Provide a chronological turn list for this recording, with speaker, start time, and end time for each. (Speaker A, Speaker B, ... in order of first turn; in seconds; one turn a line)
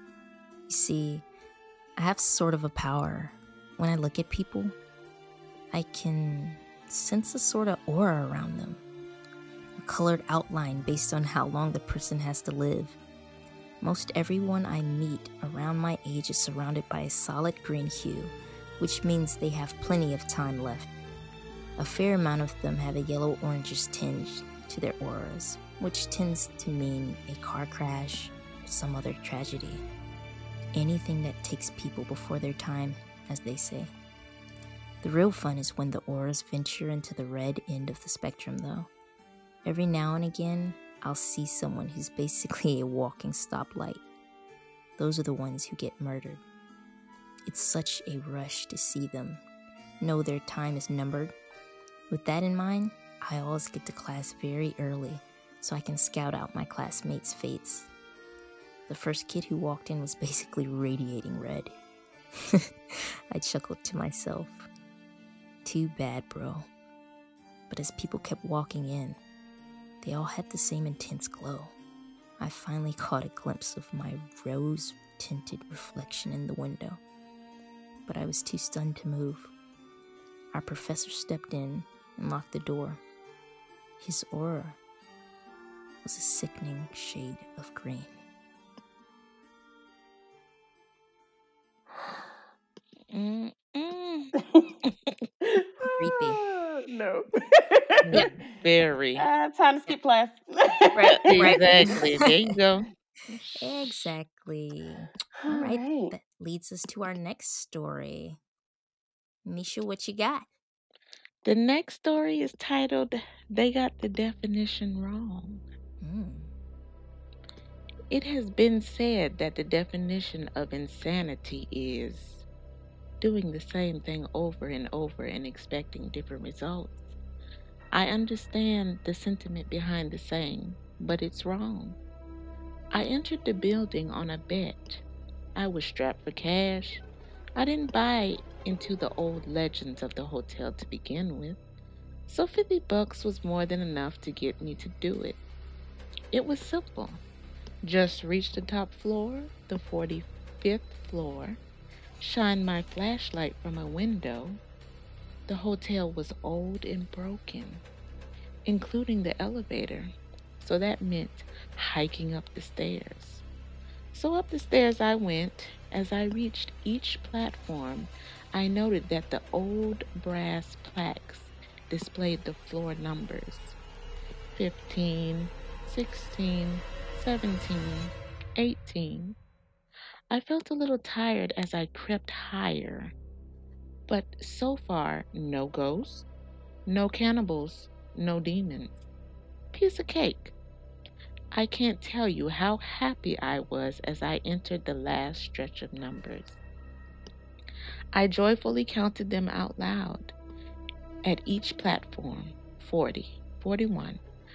Speaker A: 0.7-1.2
Speaker A: 2.0-4.8
Speaker A: 5.7-8.8
Speaker A: 9.8-13.0
Speaker A: 13.8-20.9
Speaker A: 21.8-29.8
Speaker A: 30.7-33.9
Speaker A: 35.0-38.9
Speaker A: 39.6-44.0
Speaker A: 45.0-46.4
Speaker A: 47.5-49.4
Speaker A: 50.0-51.3
Speaker A: 52.1-57.9
Speaker A: 58.9-61.7
Speaker A: 62.5-64.7
Speaker A: 65.6-66.7
Speaker A: 67.7-69.2
Speaker A: 70.0-71.8
Speaker A: 72.4-77.0
Speaker A: 78.1-79.5
Speaker A: 80.5-83.0
Speaker A: 84.0-84.8
Speaker A: 86.0-88.1
Speaker B: 93.1-95.2
Speaker C: 94.4-94.7
Speaker C: 95.4-98.2
Speaker A: 95.9-96.4
Speaker B: 98.0-99.3
Speaker C: 99.2-102.0
Speaker A: 100.9-102.0
Speaker B: 101.3-104.1
Speaker A: 103.6-108.4
Speaker C: 105.4-106.1
Speaker A: 109.5-110.5
Speaker B: 111.5-115.6
Speaker A: 116.0-116.5
Speaker B: 118.1-122.5
Speaker B: 123.2-127.0
Speaker B: 127.9-132.0
Speaker B: 132.9-135.0
Speaker B: 135.6-137.0
Speaker B: 137.6-141.6
Speaker B: 142.3-145.4
Speaker B: 146.3-147.2
Speaker B: 147.8-151.6
Speaker B: 152.2-154.6
Speaker B: 155.5-157.8
Speaker B: 158.7-160.1
Speaker B: 160.6-163.4
Speaker B: 164.1-173.8
Speaker B: 174.6-179.4
Speaker B: 180.3-183.1
Speaker B: 184.1-186.3
Speaker B: 186.9-189.0
Speaker B: 189.7-190.5
Speaker B: 191.5-196.6
Speaker B: 198.1-200.3
Speaker B: 201.2-204.2